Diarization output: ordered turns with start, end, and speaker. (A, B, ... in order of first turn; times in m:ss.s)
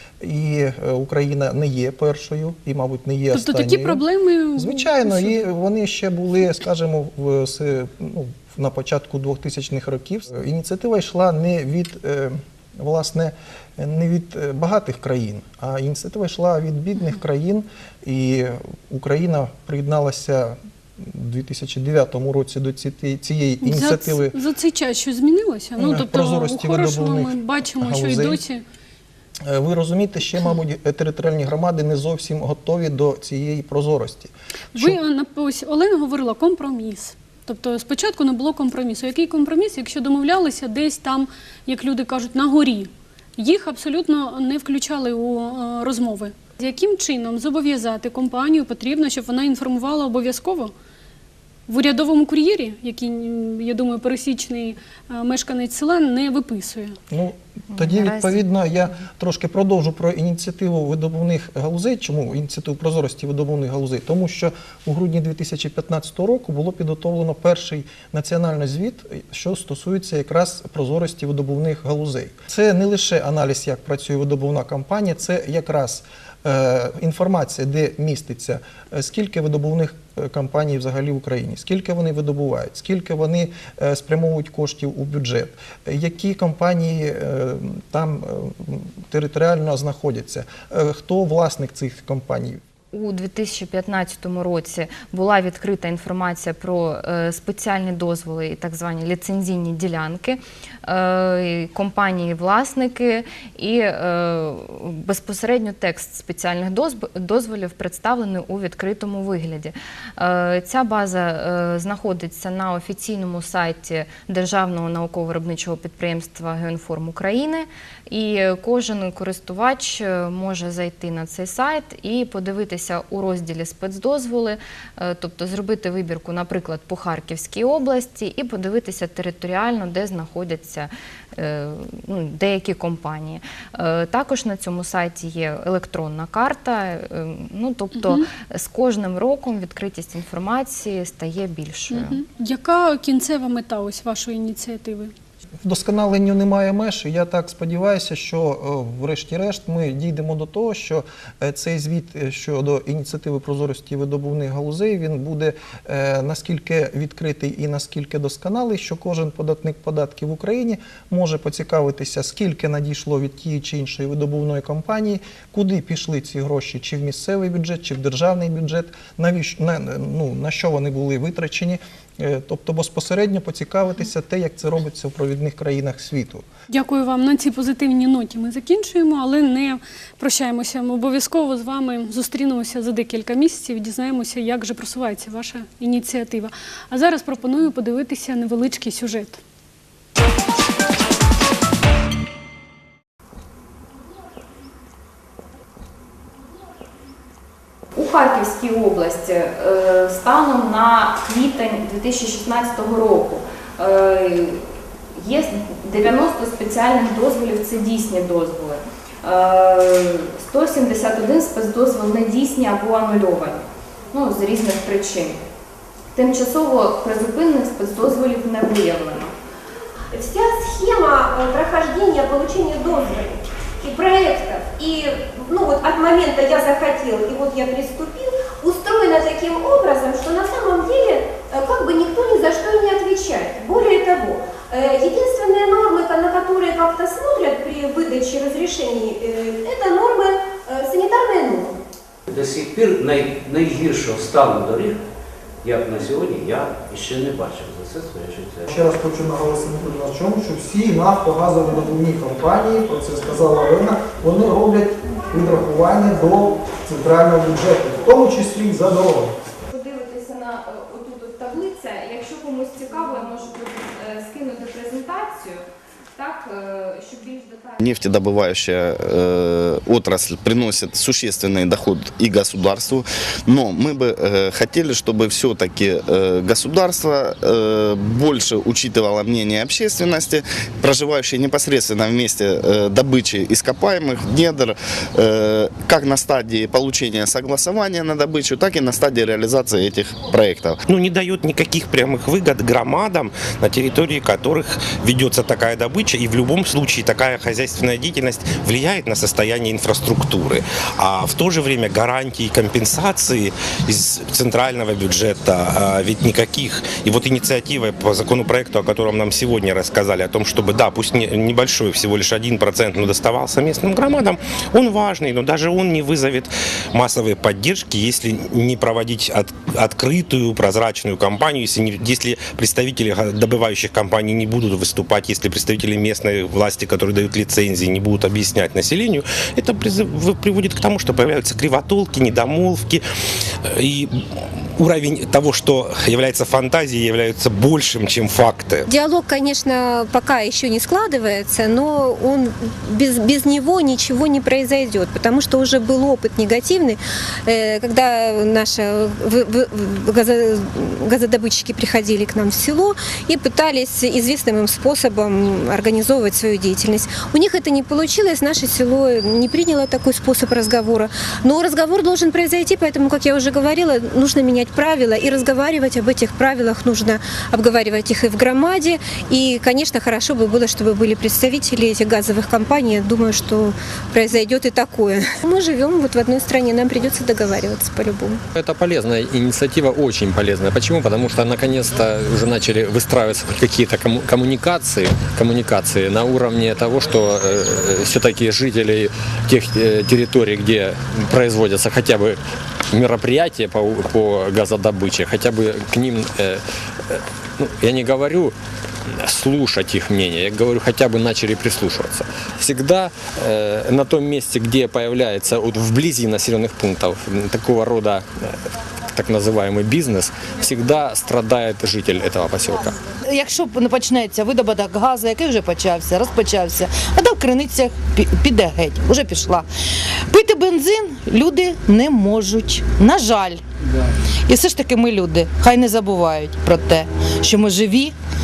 0:00.2-0:04.0 A
0:03.3-0:05.4 B
0:04.6-0:24.4 A
0:23.6-0:28.6 B
0:25.8-0:28.4 A
0:29.4-0:35.0 A
0:34.7-0:50.7 B
0:51.7-0:57.0 B
0:57.1-1:32.6 A
0:57.7-0:58.4 C
1:32.9-2:22.2 C
2:18.0-2:18.2 B
2:21.9-2:25.1 B
2:25.6-2:56.4 A
2:56.7-3:09.4 B
3:17.9-3:35.4 C
3:36.1-3:39.3 C
3:40.1-4:01.7 D
4:02.3-4:05.0 E
4:05.6-4:08.7 E
4:08.7-4:19.3 A
4:19.7-4:25.6 C
4:26.2-4:27.8 C
4:27.8-4:50.8 F
4:50.9-5:33.0 G
5:33.7-5:34.1 G
5:34.8-5:38.9 G
5:38.9-6:18.4 H
6:18.6-6:32.4 I
6:32.9-6:38.5 I
6:39.1-6:48.5 I
6:49.1-6:53.0 I
6:53.2-6:59.6 J
7:00.3-7:03.6 J
7:04.5-7:08.1 J